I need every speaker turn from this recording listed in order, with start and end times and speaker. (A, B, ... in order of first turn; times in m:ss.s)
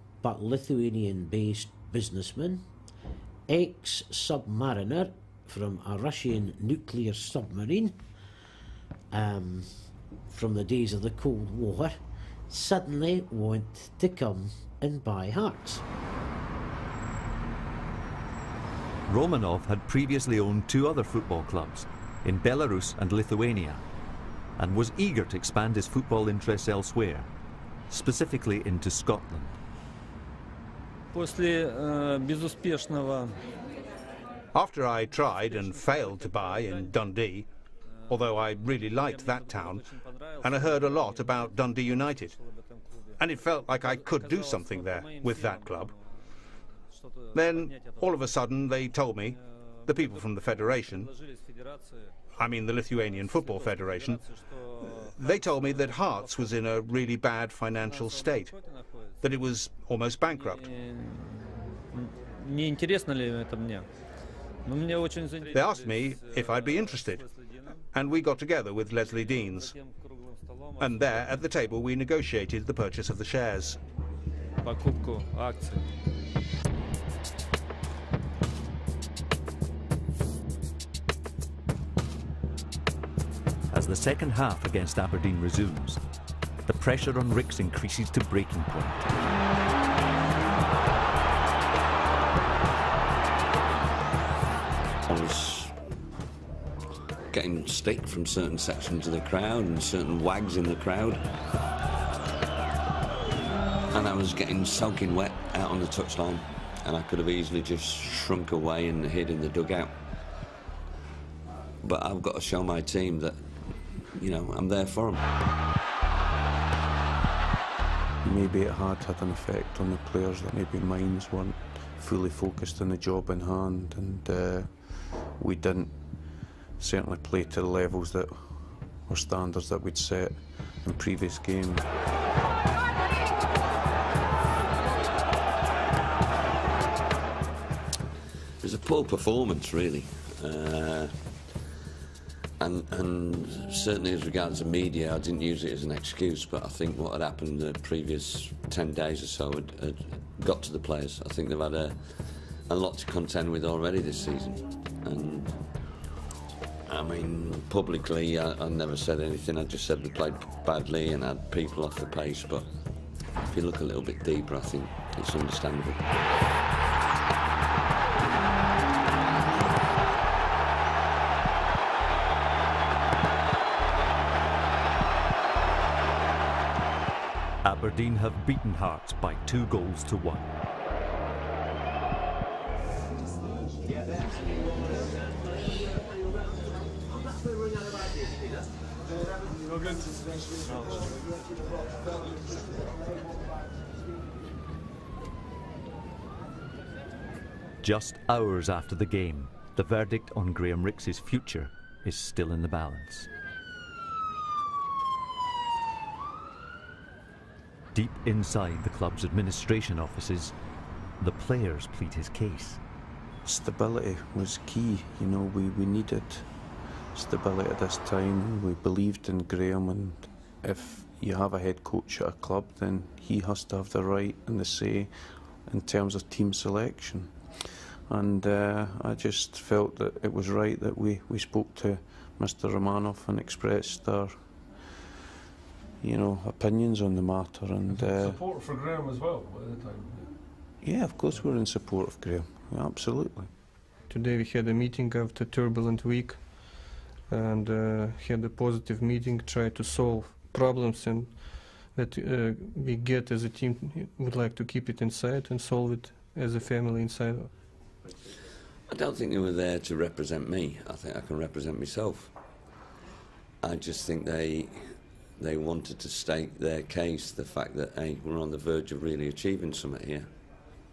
0:00.2-0:02.7 A
0:03.5-0:08.0 A
0:09.1-0:15.8 A
0:19.1-0:23.8 B
0:24.6-0:27.3 B
0:27.9-0:29.5 B
0:31.1-0:33.4 C
0:34.5-0:37.5 D
0:35.2-0:36.9 C
0:38.1-0:46.3 C
0:38.1-0:39.8 D
0:40.4-0:42.3 D
0:43.2-0:45.9 D
0:46.9-0:48.2 C
0:47.3-0:51.1 D
0:49.8-0:52.2 C
0:52.4-0:54.2 D
0:53.0-0:57.2 C
0:54.8-0:58.5 D
0:57.8-0:59.5 C
0:59.2-1:00.7 D
1:00.2-1:03.9 C
1:04.6-1:07.8 C
1:05.5-1:07.2 D
1:07.9-1:09.7 D
1:09.0-1:11.4 C
1:10.8-1:13.8 D
1:14.6-1:15.9 C
1:23.7-1:26.0 B
1:26.6-1:29.0 B
1:35.0-1:35.8 E
1:37.3-1:41.2 E
1:43.9-1:50.0 E
1:51.8-1:55.3 E
1:58.2-2:11.9 F
2:18.6-2:21.4 E
2:22.6-2:35.8 E
2:36.8-2:42.7 E
2:43.5-2:46.2 E
2:57.6-3:00.5 B
3:09.6-3:11.1 G
3:10.7-3:11.1 C
3:17.8-3:23.3 B
3:27.9-3:30.5 B
3:31.2-3:32.8 B
3:33.4-3:36.5 F
3:37.1-3:54.9 F
3:56.0-3:58.4 F
3:57.9-4:00.3 G
4:00.8-4:03.5 F
4:04.1-4:17.5 H
4:18.9-4:22.3 E
4:23.6-4:30.8 E